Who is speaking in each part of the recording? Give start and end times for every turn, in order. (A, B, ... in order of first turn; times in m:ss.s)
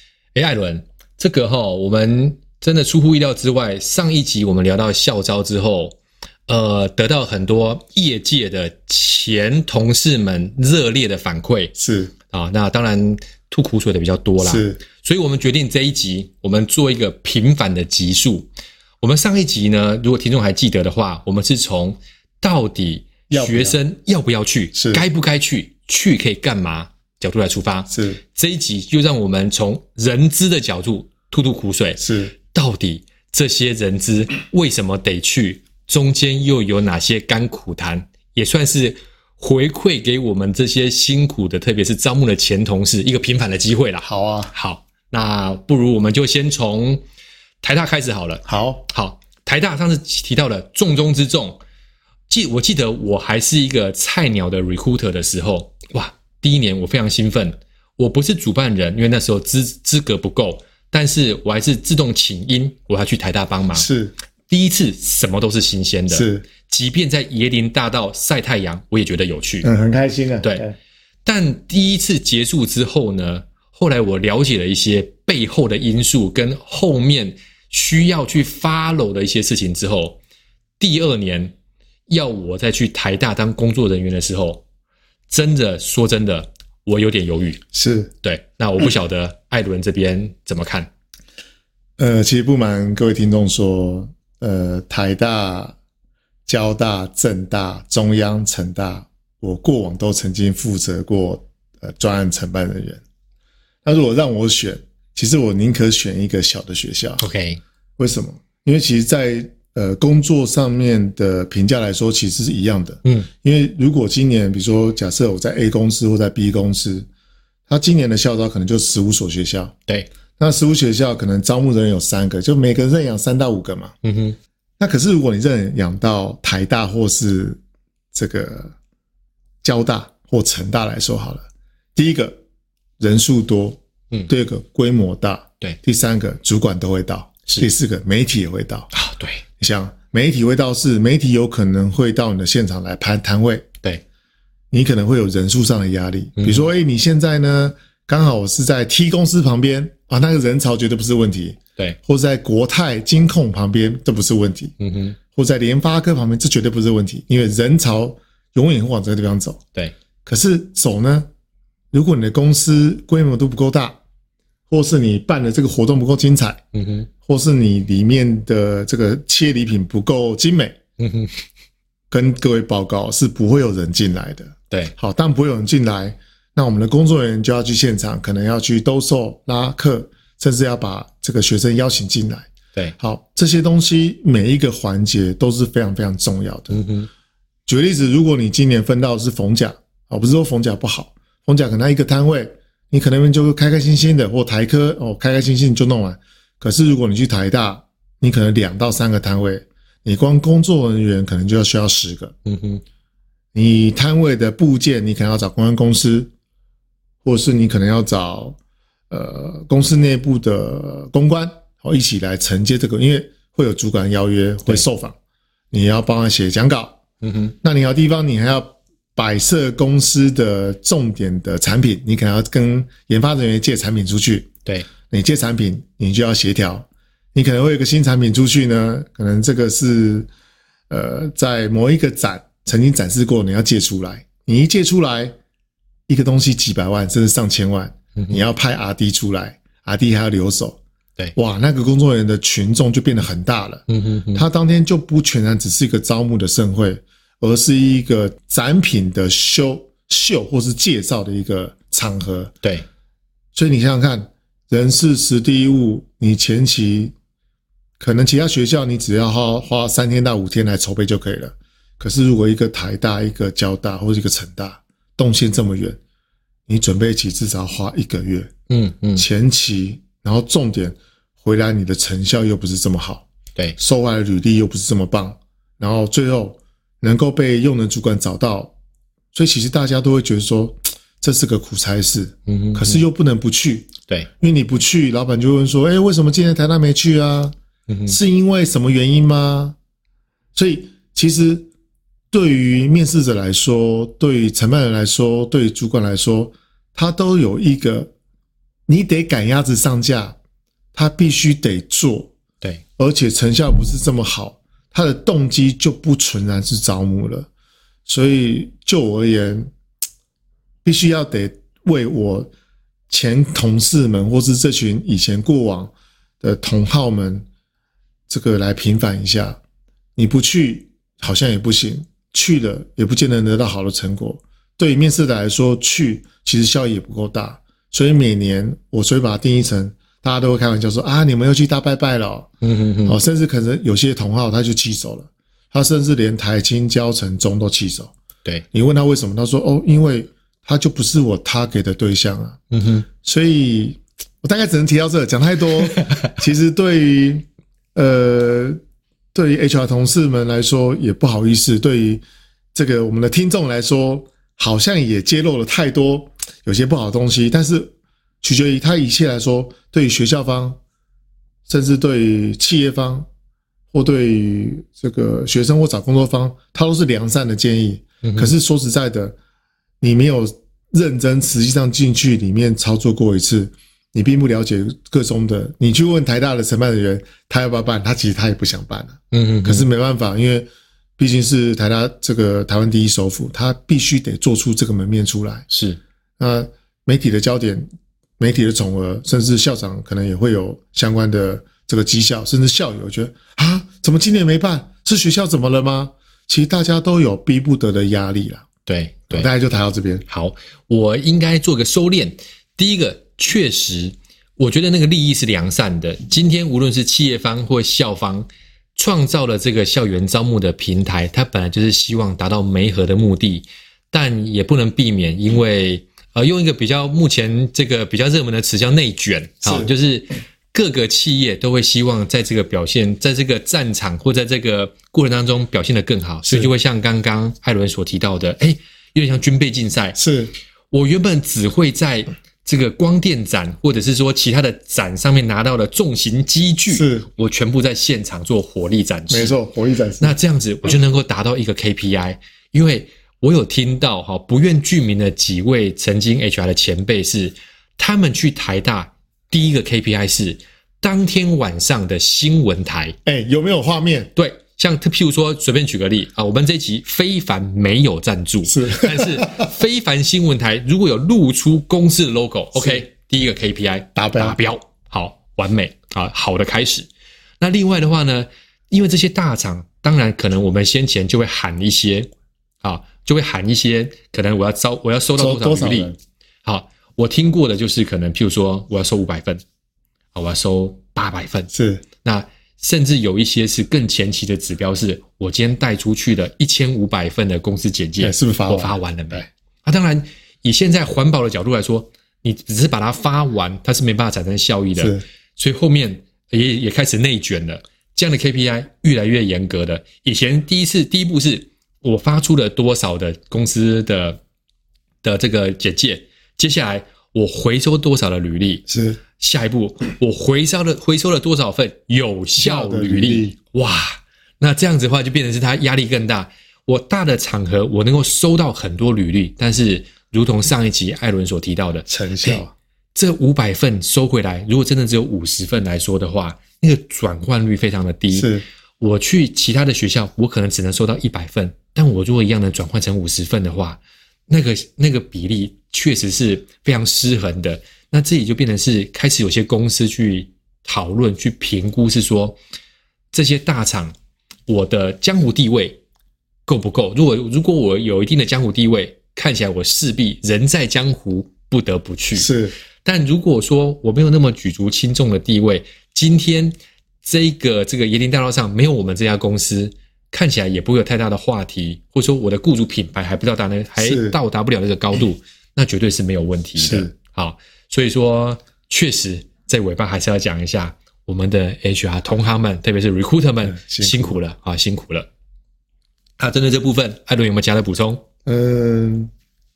0:00.3-0:06.0 A
0:06.5-0:11.7 A
0:11.7-0:12.1 B
0:12.3-0:18.5 A
0:14.4-0:14.8 B
0:19.0-0:47.0 A
0:23.3-0:23.8 B
0:24.7-0:25.0 B
0:27.9-0:28.2 B
0:32.0-0:32.3 B
0:44.0-0:44.5 B
0:47.6-0:51.6 A
0:48.4-0:48.8 B
0:52.3-1:03.9 A
1:03.7-1:04.1 B
1:04.5-1:09.7 A
1:06.1-1:06.4 B
1:09.6-1:10.7 B
1:11.2-1:20.2 A
1:20.8-1:21.5 A
1:22.1-1:24.6 A
1:25.3-1:27.6 A
1:27.7-1:28.1 B
1:28.2-1:30.9 A
1:32.0-1:35.8 B
1:36.5-1:43.0 B
1:43.8-1:47.2 B
1:47.2-1:47.6 A
1:48.0-1:57.1 B
1:53.0-1:53.3 A
1:57.7-1:59.7 B
2:00.4-2:03.9 B
2:04.0-2:04.4 A
2:04.8-2:07.6 B
2:08.1-2:08.7 B
2:09.6-2:12.4 B
2:13.0-2:18.9 B
2:18.9-2:19.4 A
2:19.6-2:23.6 B
2:24.7-2:34.7 B
2:26.4-2:26.7 A
2:34.8-2:35.2 A
2:35.3-2:39.6 B
2:40.2-2:41.3 B
2:41.9-2:44.0 B
2:44.7-2:46.6 B
2:46.7-2:47.1 A
2:47.2-2:50.8 B
2:51.0-2:51.4 A
2:52.1-3:02.5 B
3:03.0-3:06.8 B
3:06.7-3:07.1 A
3:07.7-3:22.3 B
3:22.4-3:22.8 A
3:23.5-3:26.3 B
3:27.2-3:28.6 B
3:29.1-3:35.1 B
3:35.7-3:37.0 B
3:37.2-3:37.6 A
3:37.6-3:44.5 B
3:45.1-3:50.3 B
3:50.9-3:55.3 B
3:56.1-4:00.8 B
3:58.2-3:58.4 A
4:01.4-4:03.8 B
4:03.9-4:04.4 A
4:04.3-4:12.5 B
4:13.5-4:17.1 B
4:18.0-4:26.0 B
4:26.7-4:28.5 B
4:28.7-4:29.3 A
4:29.2-4:38.7 B
4:39.3-4:47.5 B
4:42.5-4:43.0 A
4:47.9-4:48.2 A
4:48.1-4:49.8 B
4:50.5-4:51.7 B
4:52.3-4:58.1 B
4:58.9-5:00.4 B
5:00.9-5:02.3 B
5:03.0-5:07.5 B
5:08.1-5:09.7 B
5:10.8-5:12.5 B
5:13.1-5:17.4 B
5:18.3-5:19.6 B
5:20.2-5:32.5 B
5:32.6-5:33.2 A
5:33.0-5:38.1 B
5:38.7-5:42.6 B
5:42.7-5:43.0 A
5:43.2-5:48.8 B
5:49.3-5:52.2 B
5:52.7-6:00.8 B
6:01.7-6:03.3 B
6:03.9-6:09.4 B
6:08.2-6:08.5 A
6:10.0-6:25.6 B
6:19.3-6:19.9 A
6:25.7-6:26.0 A
6:26.4-6:27.9 B
6:28.4-6:38.6 B
6:38.8-6:39.5 A
6:39.3-6:40.2 B
6:40.3-7:10.2 A
6:59.6-6:59.9 B
7:10.2-7:10.5 B
7:10.9-7:19.6 A
7:16.9-7:17.3 B
7:19.3-7:20.3 B
7:20.2-7:33.2 A
7:33.2-7:34.3 B
7:34.3-7:47.1 A
7:38.6-7:39.6 B
7:42.8-7:43.0 B
7:44.2-7:44.6 B
7:47.6-7:52.3 A
7:52.8-7:59.6 A
7:55.4-7:56.2 B
8:00.3-8:01.7 A
8:01.7-8:02.0 B
8:02.2-8:24.4 A
8:08.2-8:09.5 B
8:15.0-8:15.2 B
8:25.2-9:02.6 A
8:28.9-8:29.2 B
8:32.6-8:33.6 B
8:42.1-8:42.7 B
8:48.3-8:48.6 B
9:03.3-9:04.1 A
9:04.7-9:06.0 A
9:06.6-9:12.5 A
9:12.3-9:12.8 B
9:13.0-9:35.3 A
9:24.0-9:24.4 B
9:26.8-9:27.1 B
9:33.6-9:34.4 B
9:36.4-9:38.2 A
9:38.4-9:39.3 B